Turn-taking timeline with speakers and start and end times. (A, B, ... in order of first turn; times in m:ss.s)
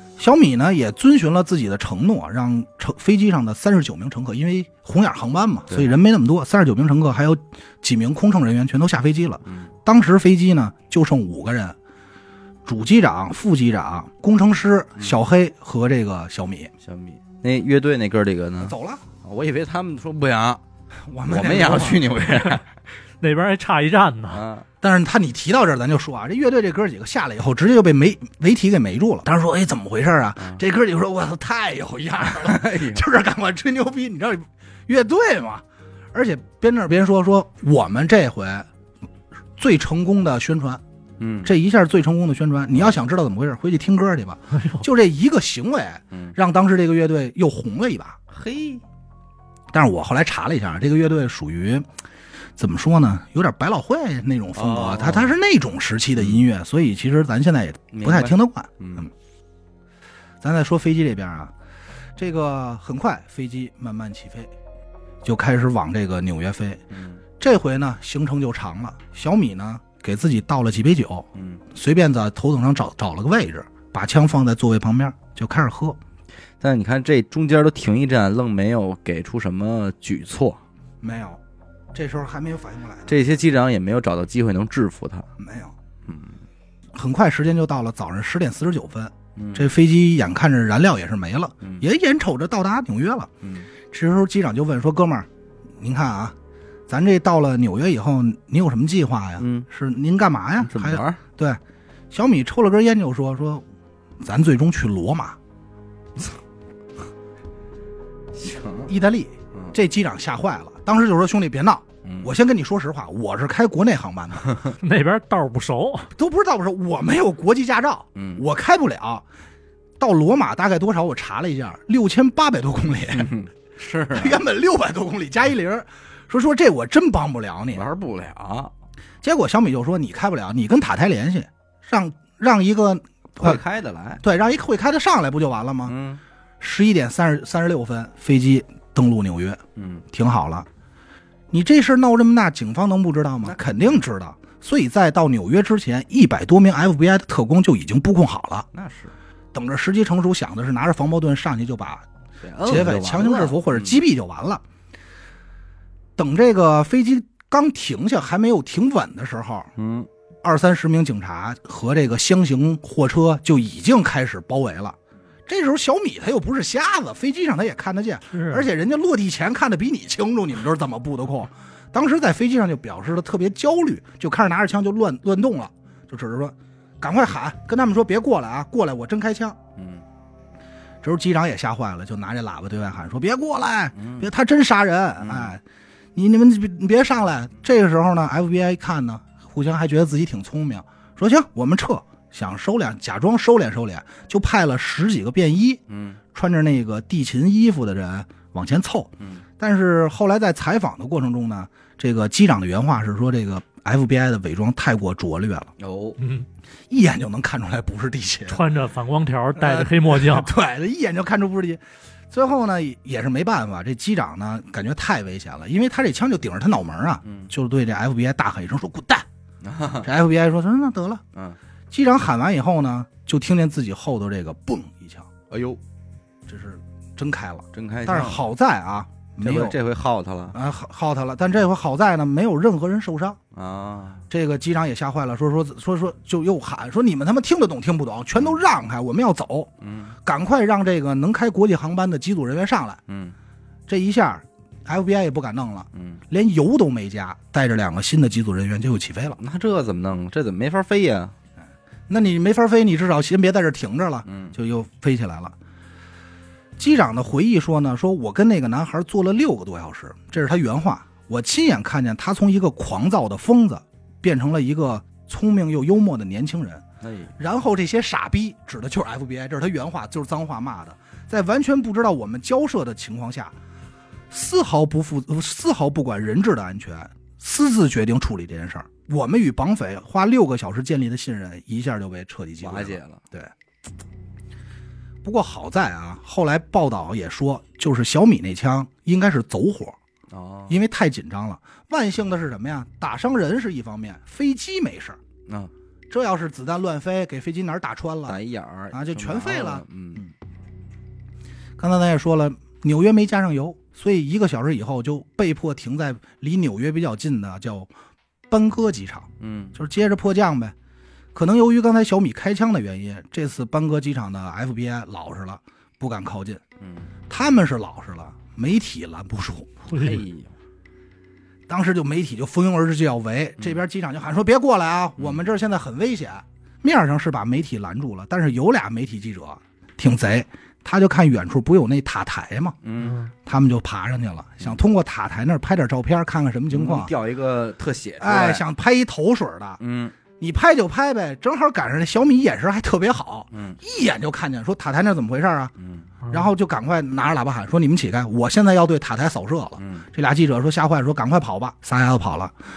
0:00.2-0:11.8 A
0:12.7-0:16.7 A
0:16.8-0:20.6 B
0:18.6-0:19.0 A
0:21.1-0:22.1 A
0:21.3-0:22.7 B
0:23.2-0:24.4 C
0:24.3-0:24.7 B
0:24.8-0:35.6 A
0:32.2-0:33.0 B
0:36.1-0:38.7 A
0:39.6-0:40.8 A
0:41.2-0:41.5 B
0:41.4-0:48.2 A
0:44.5-0:44.8 C
0:48.3-0:48.8 B
0:49.7-0:51.9 A
0:52.6-0:59.1 A
0:54.6-0:55.4 B
0:57.9-0:59.1 B
1:00.4-1:01.5 A
1:02.2-1:04.5 A
1:05.2-1:06.8 A
1:06.9-1:07.2 B
1:07.4-1:16.0 A
1:11.4-1:11.6 B
1:16.6-1:20.6 B
1:21.0-1:21.4 A
1:21.9-1:23.2 A
1:23.1-1:25.3 B
1:25.4-1:25.7 A
1:26.1-1:26.4 B
1:26.9-1:33.3 A
1:29.4-1:29.7 B
1:33.4-1:33.7 B
1:33.9-1:35.3 A
1:35.8-1:36.4 A
1:36.9-1:41.6 A
1:39.4-1:39.7 B
1:40.6-1:41.2 B
1:42.1-1:43.6 A
1:44.2-1:45.4 A
1:48.3-1:48.9 B
1:48.9-1:54.6 A
1:52.0-1:52.3 B
1:54.8-1:56.1 C
1:56.2-1:59.2 A
1:58.2-1:58.4 B
2:00.0-2:03.3 A
2:03.1-2:04.4 B
2:04.1-2:07.8 A
2:07.7-2:08.7 B
2:09.2-2:13.6 A
2:13.4-2:14.2 B
2:14.2-2:15.9 A
2:15.9-2:16.2 B
2:16.6-2:20.7 A
2:19.8-2:20.0 B
2:21.5-2:28.7 A
2:23.4-2:24.0 B
2:28.7-2:29.2 B
2:29.5-2:32.0 A
2:32.4-2:34.0 B
2:32.6-2:34.6 A
2:36.2-2:39.7 A
2:39.8-2:40.1 B
2:40.4-2:59.6 A
2:48.3-2:48.7 C
2:59.8-3:00.0 B
3:01.0-3:05.6 A
3:04.0-3:04.3 B
3:05.2-3:05.6 B
3:06.2-3:15.8 A
3:15.9-3:16.2 B
3:16.3-3:25.7 A
3:25.8-3:26.2 B
3:26.2-3:26.5 C
3:26.9-3:28.6 A
3:28.5-3:30.5 C
3:29.6-3:39.3 A
3:37.2-3:37.5 B
3:39.6-3:40.1 B
3:40.0-3:41.2 A
3:41.9-3:45.3 A
3:45.5-3:45.8 B
3:46.5-3:49.8 A
3:47.7-3:48.5 B
3:49.4-3:50.6 B
3:50.5-3:53.4 A
3:53.5-3:54.2 B
3:54.3-3:59.7 A
3:59.8-4:00.2 B
4:00.2-4:03.0 A
4:03.1-4:03.4 B
4:03.9-4:09.4 A
4:05.9-4:06.2 B
4:09.4-4:11.3 B
4:12.1-4:15.5 A
4:14.3-4:14.6 B
4:16.8-4:26.8 A
4:27.0-4:27.3 B
4:27.4-4:33.6 A
4:34.3-4:43.5 A
4:42.6-4:43.2 B
4:45.2-4:50.0 A
4:50.3-4:50.8 B
4:50.7-4:55.2 A
4:56.1-4:58.4 A
4:58.3-5:00.2 B
4:58.9-5:00.3 A
5:01.8-5:07.9 A
5:08.5-5:10.7 A
5:09.4-5:09.8 B
5:11.4-5:16.6 A
5:16.8-5:17.1 B
5:17.3-5:19.7 A
5:19.9-5:20.2 C
5:19.9-5:20.5 B
5:21.7-5:32.8 A
5:32.8-5:33.3 B
5:33.0-5:33.3 C
5:33.4-5:37.1 A
5:36.7-5:38.6 B
5:38.2-5:39.8 A
5:39.8-5:40.2 B
5:40.4-5:45.7 A
5:43.5-5:43.8 B
5:45.8-5:46.1 B
5:46.2-5:46.5 C
5:46.3-5:52.6 A
5:49.8-5:50.1 B